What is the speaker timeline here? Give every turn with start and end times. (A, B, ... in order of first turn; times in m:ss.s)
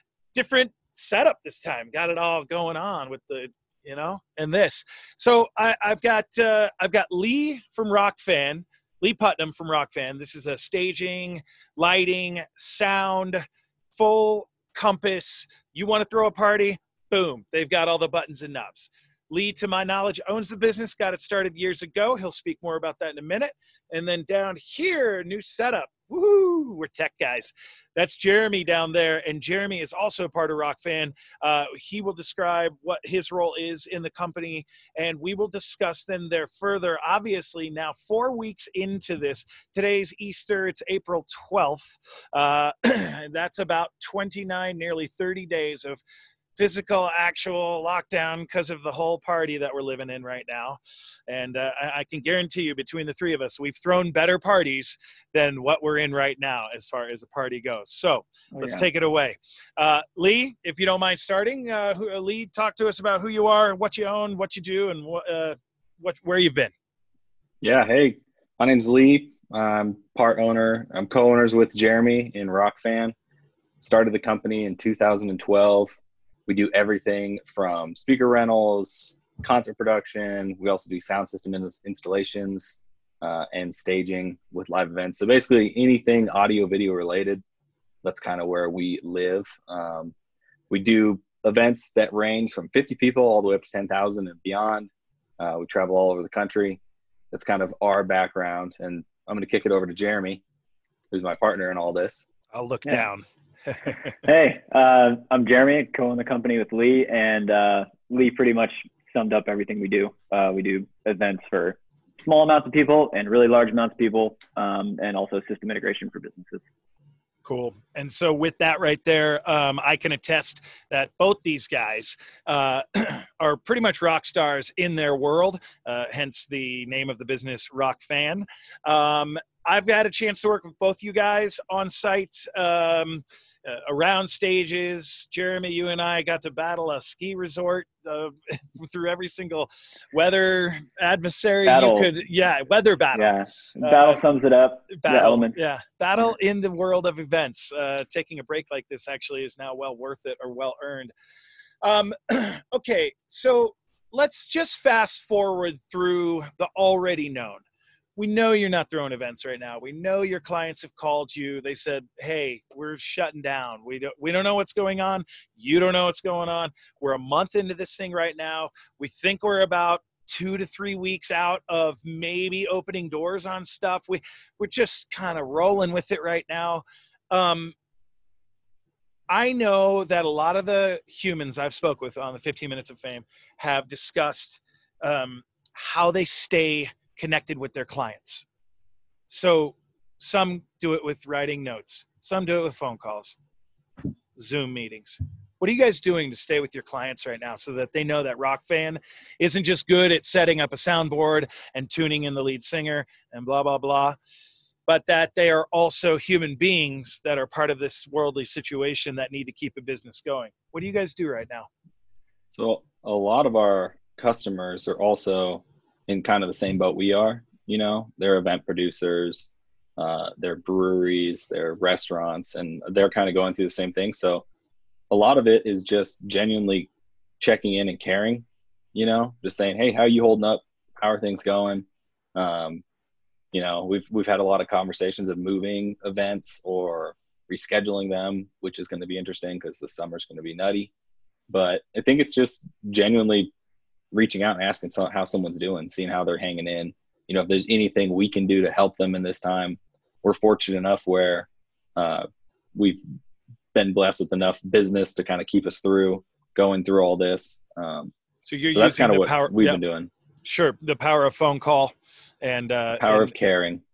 0:00.3-0:46.0 A
0:46.6-1:06.7 A
0:58.5-0:58.9 B
1:07.6-1:13.1 C
1:13.8-1:16.0 C
1:16.5-1:27.4 C
1:28.0-1:30.1 C
1:30.7-1:36.8 C
1:37.3-1:40.4 C
1:41.1-1:42.3 C
1:42.5-1:44.0 A
1:44.2-1:56.6 B
1:57.4-2:24.2 A
2:21.6-2:22.1 B
2:23.1-2:25.6 B
2:24.9-2:31.1 A
2:31.8-2:37.6 A
2:38.2-2:57.7 A
2:59.3-3:08.5 A
3:09.3-3:13.4 A
3:14.4-3:24.2 A
3:24.9-3:31.7 A
3:32.5-3:44.4 C
3:45.1-3:52.8 C
3:53.5-4:00.9 C
4:01.5-4:03.5 C
4:04.1-4:12.2 C
4:12.8-4:13.0 C
4:13.7-4:18.1 C
4:18.4-4:19.8 A
4:18.7-4:20.1 C
4:20.4-4:23.3 A
4:23.0-4:23.8 C